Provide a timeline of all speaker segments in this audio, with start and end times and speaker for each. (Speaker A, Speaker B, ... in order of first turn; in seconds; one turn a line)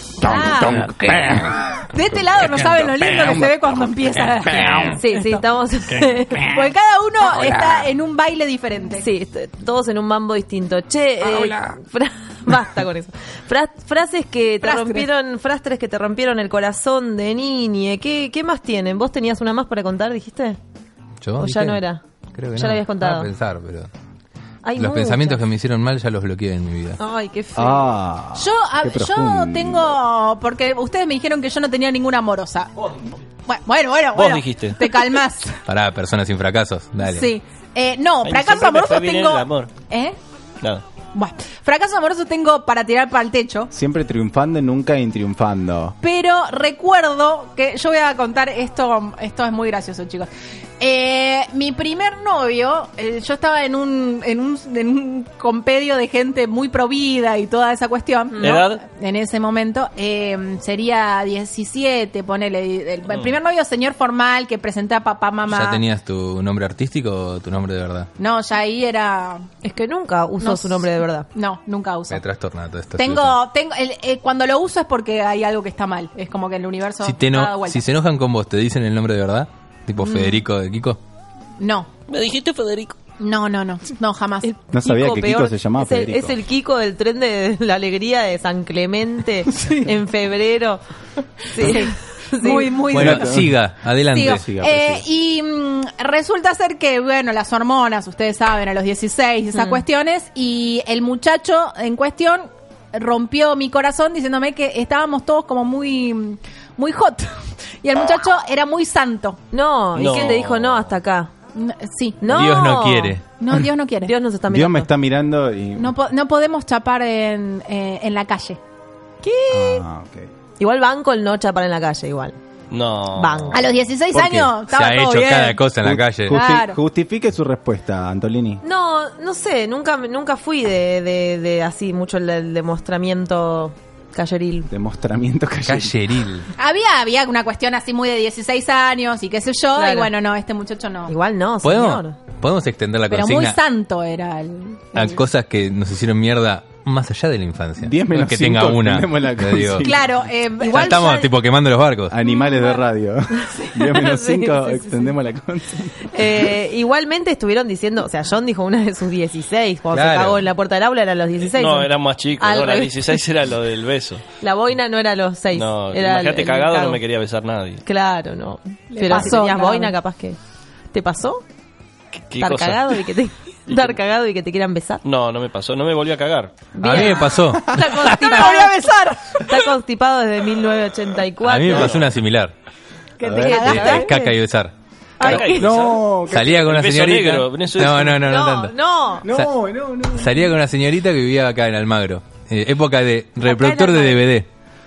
Speaker A: 0.2-1.4
Speaker A: 1.9-5.4
Speaker B: 4.9-6.6
Speaker A: 6.5-9.0
Speaker B: 9.0-20.6
Speaker A: 14.6-15.1
Speaker C: 21.2-21.8
Speaker B: 21.4-22.0
Speaker C: 22.3-23.9
Speaker B: 22.5-23.3
Speaker B: 24.6-25.4
Speaker C: 24.8-27.0
Speaker B: 27.0-27.9
Speaker D: 27.6-30.0
Speaker A: 28.3-35.6
Speaker E: 34.1-34.8
Speaker C: 35.7-37.3
Speaker A: 37.0-40.2
Speaker E: 38.2-39.7
Speaker A: 41.1-43.7
Speaker D: 43.7-46.0
Speaker A: 46.0-65.8
Speaker B: 58.3-58.6
Speaker E: 58.4-58.8
Speaker E: 63.1-63.4
Speaker C: 65.5-68.1
Speaker A: 68.2-69.5
Speaker B: 69.6-71.3
Speaker A: 70.4-72.2
Speaker C: 72.1-73.4
Speaker A: 73.0-77.8
Speaker C: 77.0-81.0
Speaker A: 80.0-80.4
Speaker A: 81.6-81.9
Speaker E: 82.1-83.0
Speaker A: 83.2-84.5
Speaker B: 84.4-90.8
Speaker D: 84.7-86.4
Speaker A: 89.6-89.9
Speaker B: 91.5-92.8
Speaker A: 91.6-93.5
Speaker C: 92.9-94.4
Speaker D: 93.0-93.5
Speaker A: 94.1-109.4
Speaker D: 94.3-95.0
Speaker B: 99.5-99.8
Speaker B: 109.5-111.3
Speaker E: 110.0-110.9
Speaker A: 111.5-112.2
Speaker B: 112.2-113.2
Speaker C: 112.3-113.2
Speaker A: 113.3-114.1
Speaker B: 114.0-114.9
Speaker D: 114.5-115.9
Speaker A: 115.8-118.6
Speaker B: 119.2-119.8
Speaker D: 119.5-120.3
Speaker B: 120.6-122.4
Speaker E: 122.7-123.7
Speaker B: 123.1-123.7
Speaker A: 123.5-125.6
Speaker D: 124.1-124.5
Speaker C: 124.7-126.4
Speaker D: 125.8-128.6
Speaker A: 126.3-126.8
Speaker B: 128.6-134.7
Speaker D: 134.7-136.1
Speaker C: 135.7-136.5
Speaker A: 136.6-141.1
Speaker B: 139.8-140.1
Speaker B: 141.1-142.2
Speaker C: 141.6-143.6
Speaker A: 143.1-145.2
Speaker C: 144.9-149.9
Speaker D: 147.8-150.1
Speaker A: 149.8-151.4
Speaker C: 150.6-152.2
Speaker D: 152.1-156.2
Speaker B: 153.4-155.2
Speaker B: 156.1-163.2
Speaker C: 159.9-160.4
Speaker E: 161.4-164.2
Speaker B: 164.4-167.0
Speaker E: 165.5-167.8
Speaker B: 167.8-170.4
Speaker A: 168.9-169.9
Speaker B: 170.9-171.4
Speaker E: 172.3-172.9
Speaker B: 172.4-175.0
Speaker E: 173.7-174.0
Speaker E: 175.0-176.5
Speaker B: 176.7-177.3
Speaker C: 176.8-178.6
Speaker A: 176.9-179.6
Speaker B: 178.2-178.7
Speaker B: 179.4-182.0
Speaker C: 181.4-182.5
Speaker E: 181.7-182.1
Speaker A: 183.2-184.1
Speaker D: 183.2-183.7
Speaker B: 183.3-184.4
Speaker C: 183.6-185.4
Speaker B: 185.2-185.7
Speaker E: 185.2-188.2
Speaker D: 185.5-186.6
Speaker C: 186.3-188.7
Speaker B: 188.2-189.3
Speaker D: 189.2-190.4
Speaker C: 190.1-194.5
Speaker B: 193.4-194.2